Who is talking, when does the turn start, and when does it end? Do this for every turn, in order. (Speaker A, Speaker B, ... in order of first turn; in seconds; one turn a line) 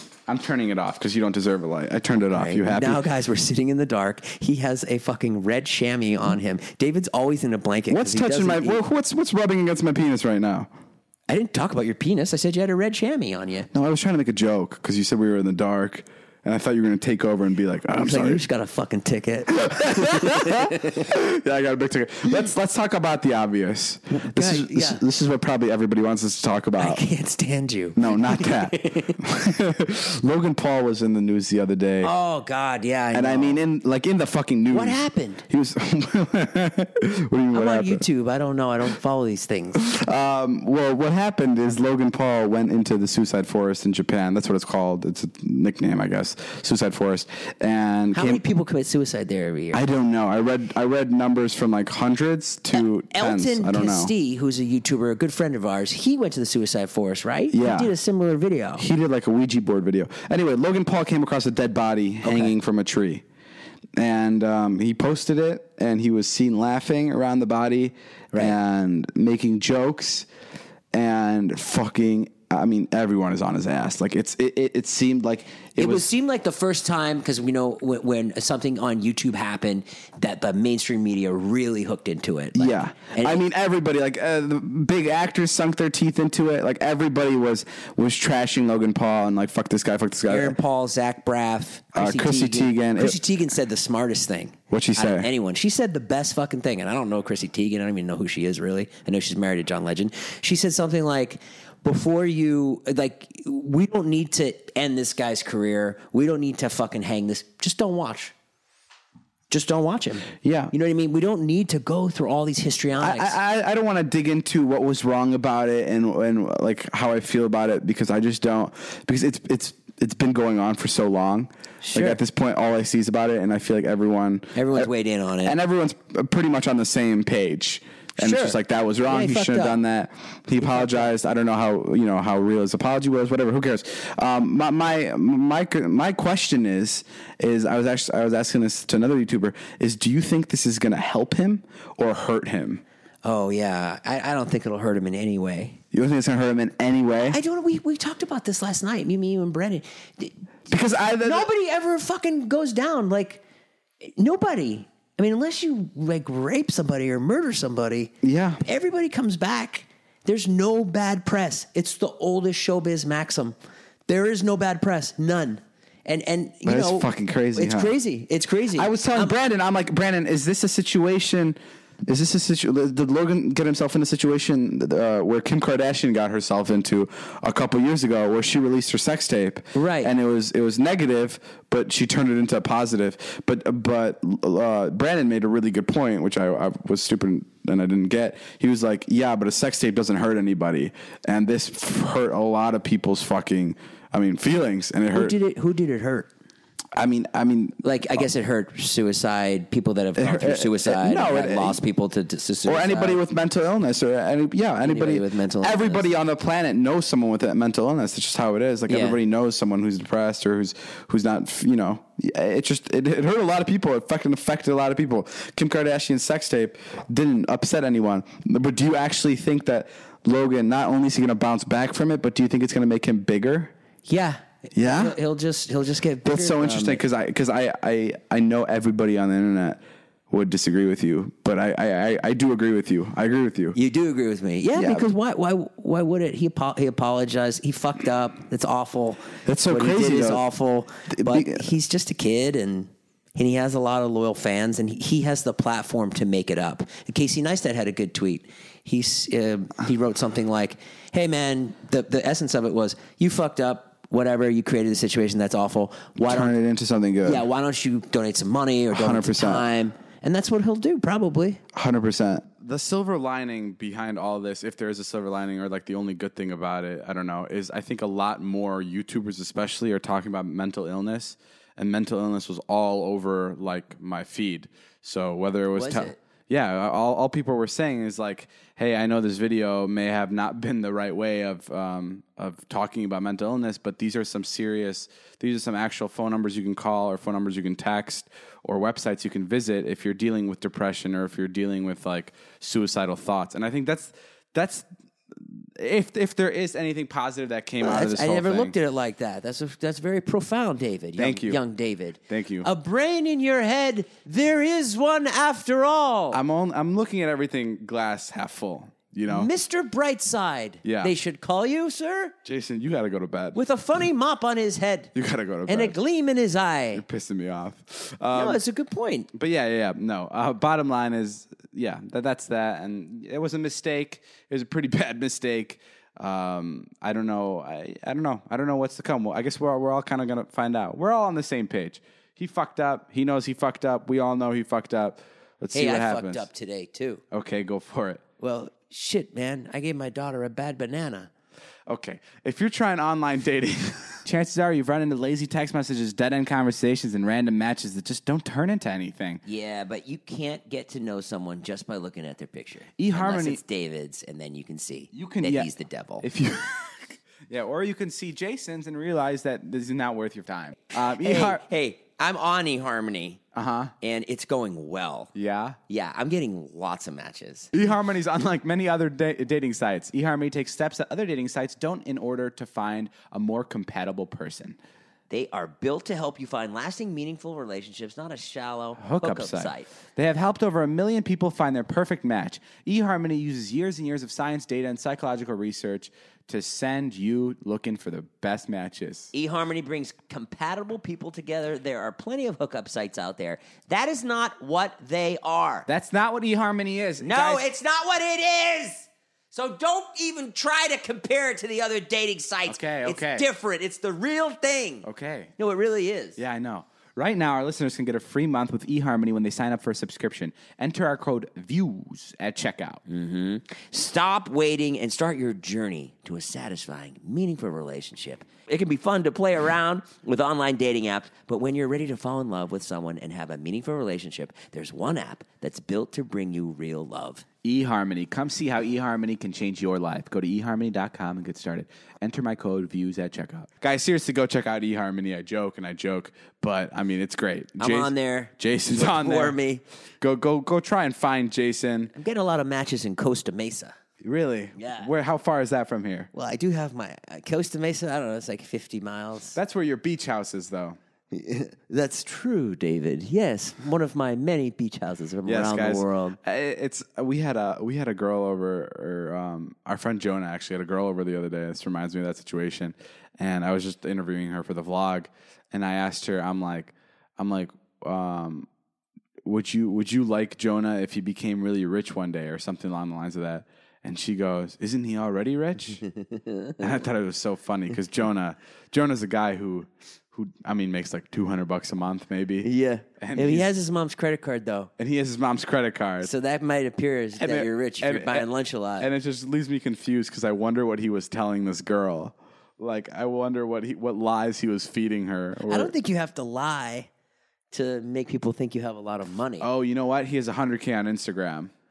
Speaker A: 0.3-3.0
Speaker B: 2.3-8.8
Speaker A: 7.9-10.7
Speaker B: 11.3-13.7
Speaker A: 13.7-18.4
Speaker B: 18.0-21.1
Speaker A: 19.5-27.0
Speaker B: 24.1-25.0
Speaker B: 26.8-29.2
Speaker A: 27.9-32.1
Speaker B: 32.0-33.6
Speaker A: 33.1-38.0
Speaker B: 34.7-35.4
Speaker B: 37.5-39.8
Speaker A: 39.8-48.4
Speaker B: 48.1-49.8
Speaker A: 49.7-54.1
Speaker B: 52.8-58.8
Speaker A: 57.5-57.9
Speaker A: 58.8-63.2
Speaker B: 62.2-62.5
Speaker A: 64.0-70.3
Speaker A: 70.9-76.1
Speaker B: 75.8-83.4
Speaker A: 82.5-90.5
Speaker B: 90.3-108.3
Speaker A: 91.9-93.2
Speaker A: 94.7-95.3
Speaker B: 109.5-113.4
Speaker A: 110.4-110.7
Speaker A: 113.0-124.9
Speaker B: 121.8-122.2
Speaker B: 124.5-125.5
Speaker A: 125.4-142.8
Speaker B: 128.2-129.8
Speaker B: 130.6-131.1
Speaker B: 143.2-145.8
Speaker A: 145.9-147.4
Speaker B: 147.3-150.3
Speaker A: 150.7-151.5
Speaker B: 151.2-153.4
Speaker B: 154.0-163.5
Speaker A: 158.2-158.6
Speaker B: 164.1-169.3
Speaker A: 166.6-167.9
Speaker A: 168.8-195.3
Speaker B: 179.7-180.1
Speaker B: 195.1-196.3
Speaker A: 196.9-198.2
Speaker B: 197.8-203.2
Speaker A: 200.2-201.8
Speaker A: 202.7-223.7
Speaker B: 204.8-206.1
Speaker B: 208.9-209.2
Speaker B: 224.1-227.0
Speaker A: 224.7-225.2
Speaker A: 226.2-233.8
Speaker B: 233.7-256.5
Speaker A: 234.7-235.1
Speaker A: 239.4-240.4
Speaker A: 241.1-241.6
Speaker A: 256.2-257.4
Speaker B: 257.2-261.6
Speaker A: 258.9-259.7
Speaker A: 261.7-298.7
Speaker B: 275.7-276.2
Speaker B: 297.8-306.4
Speaker A: 301.2-301.6
Speaker A: 302.3-302.7
Speaker A: 306.3-309.5
Speaker B: 309.3-312.3
Speaker A: 310.8-311.1
Speaker A: 312.4-313.6
Speaker B: 313.5-315.1
Speaker A: 315.1-316.0
Speaker B: 315.7-317.0
Speaker A: 316.9-318.6
Speaker B: 318.3-319.3
Speaker A: 319.3-336.4
Speaker B: 335.7-337.2
Speaker A: 337.3-338.2
Speaker B: 338.4-341.3
Speaker A: 341.9-349.4
Speaker B: 349.4-356.2
Speaker A: 353.0-353.6
Speaker A: 355.1-355.7
Speaker A: 356.2-361.6
Speaker B: 360.9-363.4
Speaker A: 363.5-363.9
Speaker B: 364.0-365.3
Speaker A: 365.3-365.8
Speaker B: 365.9-367.7
Speaker A: 367.7-374.8
Speaker B: 375.3-379.9
Speaker A: 379.0-389.3
Speaker B: 389.3-395.9
Speaker A: 395.9-397.6
Speaker B: 397.2-405.1
Speaker A: 402.7-403.4
Speaker A: 405.0-405.5
Speaker B: 405.6-406.4
Speaker A: 406.4-413.0
Speaker B: 413.1-427.4
Speaker A: 427.6-439.6
Speaker B: 437.8-439.8
Speaker A: 440.2-442.1
Speaker B: 442.1-443.9
Speaker A: 444.2-446.3
Speaker B: 444.8-445.1
Speaker B: 446.3-449.6
Speaker A: 449.5-451.0
Speaker B: 451.3-456.4
Speaker A: 455.4-468.7
Speaker A: 469.4-476.0
Speaker B: 476.0-476.8
Speaker A: 476.8-483.7
Speaker B: 482.6-484.9
Speaker A: 485.0-486.3
Speaker B: 486.2-489.1
Speaker A: 487.4-488.5
Speaker A: 489.0-495.9
Speaker B: 495.7-497.1
Speaker B: 497.7-499.7
Speaker A: 499.6-501.7